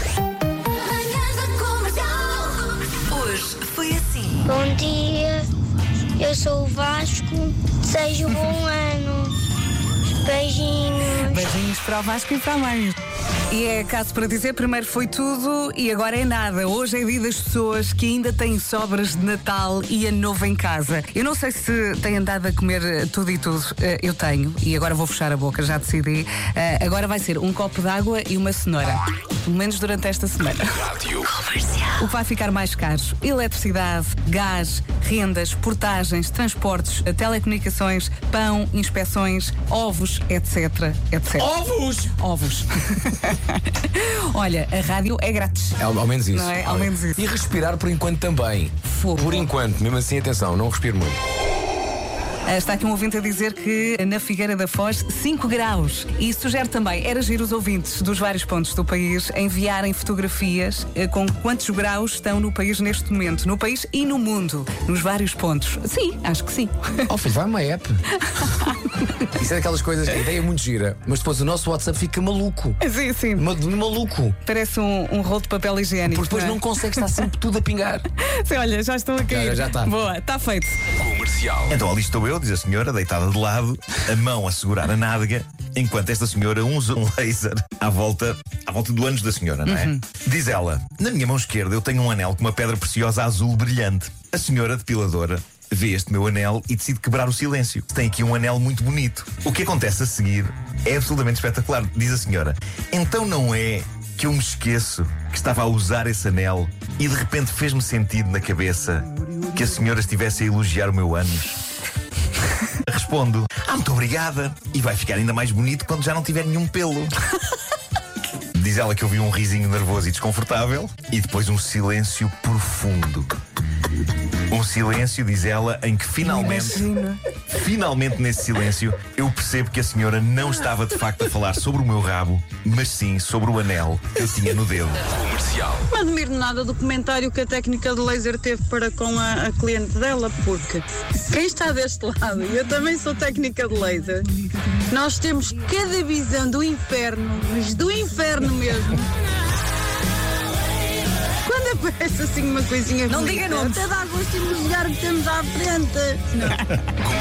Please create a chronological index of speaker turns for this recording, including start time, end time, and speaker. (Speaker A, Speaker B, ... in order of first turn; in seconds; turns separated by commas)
Speaker A: 1.3-4.5, Speaker B: 4.5-5.5, Speaker B: 6.2-9.3, Speaker B: 10.1-11.5, Speaker C: 11.3-13.0, Speaker C: 13.5-31.0, Speaker C: 31.9-41.5, Speaker D: 41.4-42.2, Speaker C: 42.2-45.8, Speaker D: 45.8-51.2, Speaker C: 46.3-47.3, Speaker C: 48.9-49.5, Speaker C: 52.5-67.1, Speaker D: 67.1-68.0, Speaker C: 68.3-68.7, Speaker D: 69.3-72.8, Speaker C: 72.8-73.5, Speaker D: 73.3-74.4, Speaker C: 74.5-77.1, Speaker D: 76.1-78.1, Speaker C: 78.2-80.8, Speaker D: 79.3-80.0, Speaker D: 81.0-81.5, Speaker E: 81.7-111.6, Speaker C: 89.7-90.0, Speaker E: 112.8-117.2, Speaker E: 118.5-123.3, Speaker E: 124.5-126.9, Speaker C: 126.2-127.2, Speaker E: 127.5-135.1, Speaker F: 135.9-144.3, Speaker F: 144.9-149.1, Speaker F: 151.4-156.7, Speaker C: 153.1-153.9